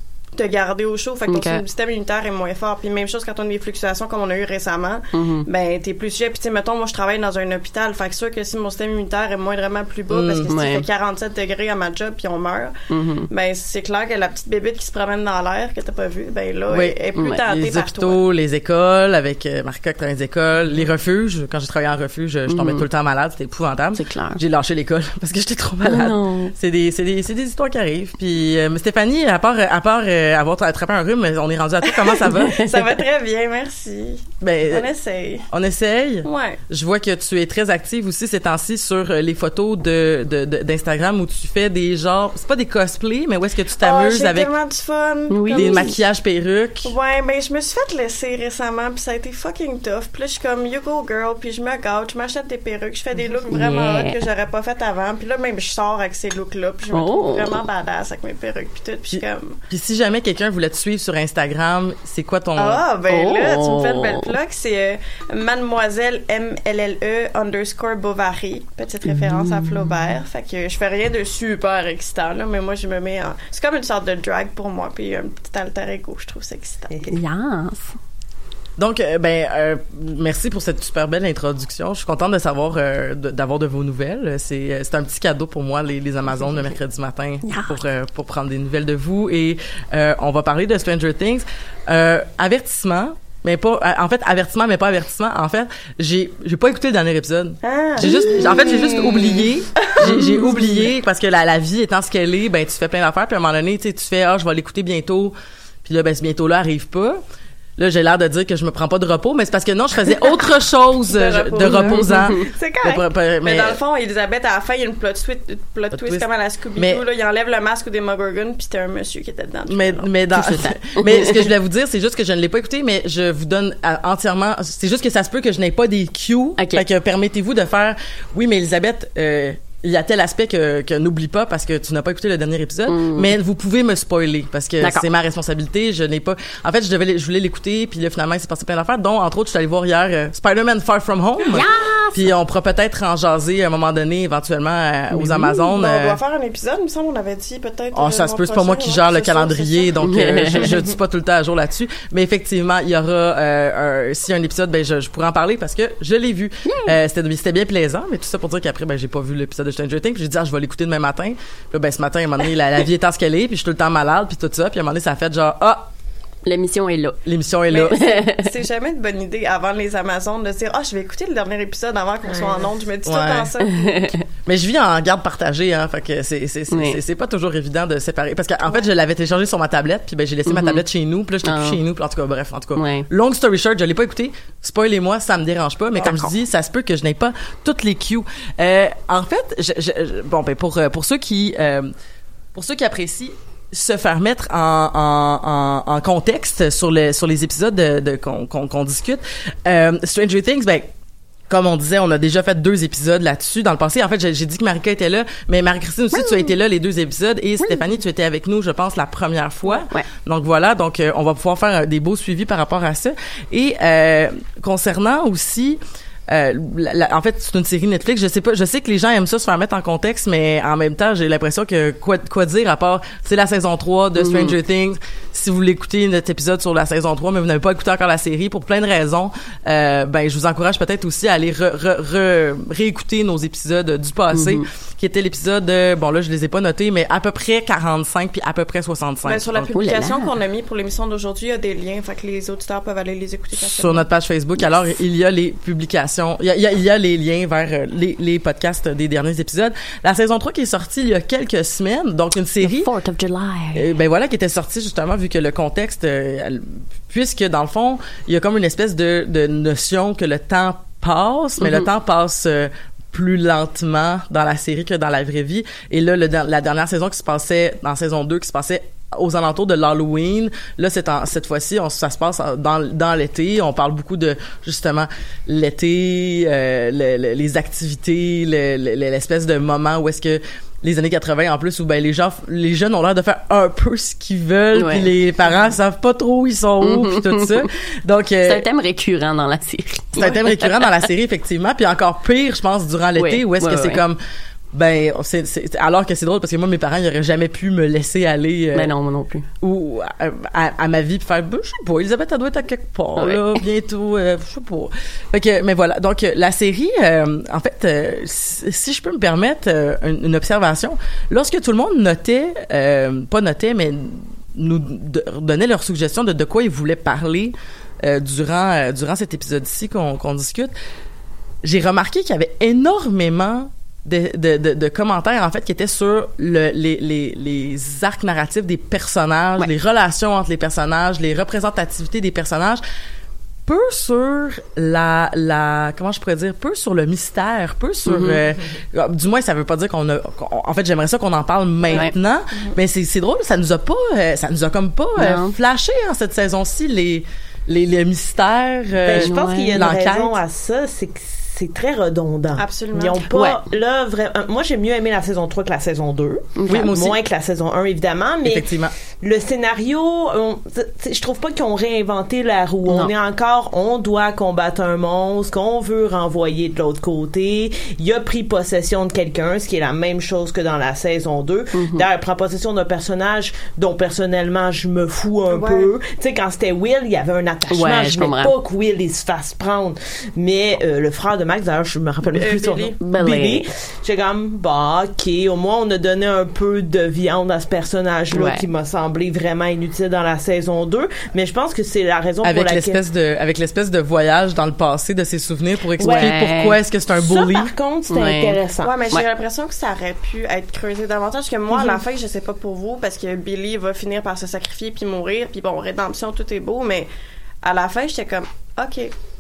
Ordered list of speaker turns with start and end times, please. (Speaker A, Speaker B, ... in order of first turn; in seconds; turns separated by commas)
Speaker A: 0.4-12.8, Speaker B: 1.3-1.6, Speaker B: 5.1-5.5, Speaker C: 10.1-10.5, Speaker B: 10.5-10.9, Speaker B: 12.9-13.3, Speaker A: 13.3-18.2, Speaker C: 16.7-32.6, Speaker B: 17.2-17.4, Speaker B: 22.5-22.9, Speaker B: 23.9-24.4, Speaker B: 25.8-26.5, Speaker A: 32.1-35.5, Speaker B: 32.5-32.8, Speaker C: 34.4-34.9, Speaker C: 35.5-44.5, Speaker A: 36.2-36.6, Speaker A: 43.8-45.9, Speaker B: 45.3-46.0, Speaker C: 45.5-46.9, Speaker A: 46.9-59.6, Speaker B: 53.5-54.2, Speaker B: 56.9-57.6, Speaker C: 59.1-62.8, Speaker A: 62.6-76.9, Speaker B: 63.1-64.3, Speaker B: 69.1-70.0, Speaker D: 76.9-77.2, Speaker B: 77.1-78.0, Speaker C: 78.8-107.2, Speaker B: 87.4-87.8, Speaker A: 97.6-99.1, Speaker D: 98.0-99.4, Speaker B: 100.0-100.7, Speaker C: 107.8-113.8, Speaker A: 111.1-112.1, Speaker B: 111.6-112.3, Speaker D: 112.3-113.0, Speaker A: 113.4-120.1, Speaker C: 115.9-116.3, Speaker C: 116.8-117.0, Speaker C: 119.7-146.2, Speaker B: 120.3-121.5, Speaker B: 126.6-126.8, Speaker B: 132.9-133.3, Speaker B: 141.5-142.3, Speaker B: 145.1-145.5, Speaker A: 145.6-150.0, Speaker C: 147.9-165.9, Speaker B: 150.0-150.7, Speaker B: 156.7-157.0, Speaker B: 166.5-167.2, Speaker C: 167.3-168.1, Speaker B: 167.7-168.5, Speaker A: 167.7-174.1, Speaker D: 172.3-172.7, Speaker C: 173.1-173.5, Speaker B: 173.7-174.2, Speaker C: 174.5-191.9, Speaker B: 176.7-177.0, Speaker B: 180.5-180.8, Speaker B: 181.4-181.8, Speaker B: 182.8-183.1, Speaker A: 186.0-186.3, Speaker C: 192.6-200.9, Speaker C: 201.5-239.7, Speaker B: 206.1-206.5, Speaker B: 207.6-207.9, Speaker B: 209.7-210.1, Speaker B: 224.2-224.6, Speaker B: 234.3-234.7, Speaker A: 239.2-244.1, Speaker B: 239.7-240.3, Speaker C: 243.6-252.9, Speaker B: 252.6-253.9, Speaker C: 253.8-288.6, Speaker B: 261.6-261.9, Speaker B: 284.7-285.1, Speaker B: 286.8-287.6, Speaker B: 288.4-291.1, Speaker C: 290.2-294.2, Speaker B: 293.2-294.0, Speaker C: 294.7-298.9, Speaker B: 298.7-299.5, Speaker C: 299.6-320.7, Speaker B: 303.2-303.6, Speaker C: 321.6-332.8, Speaker C: 333.7-350.4, Speaker B: 338.1-338.4, Speaker B: 345.2-345.6, Speaker D: 349.1-358.7, Speaker B: 349.2-349.8, Speaker A: 352.6-353.2, Speaker B: 353.3-353.6, Speaker B: 356.6-357.0, Speaker C: 356.7-357.2, Speaker C: 358.4-358.9, Speaker D: 359.2-393.0, Speaker B: 362.9-363.1, Speaker B: 371.7-372.1, Speaker A: 375.5-375.9, Speaker B: 377.7-378.5, Speaker A: 382.2-383.0, Speaker B: 383.0-383.7, Speaker B: 388.3-388.6, Speaker C: 392.4-397.7, Speaker D: 396.0-396.3, Speaker B: 396.0-396.8, Speaker D: 397.1-398.9, Speaker B: 398.1-398.6, Speaker A: 398.8-407.1, Speaker D: 401.7-402.0, Speaker A: 407.6-409.1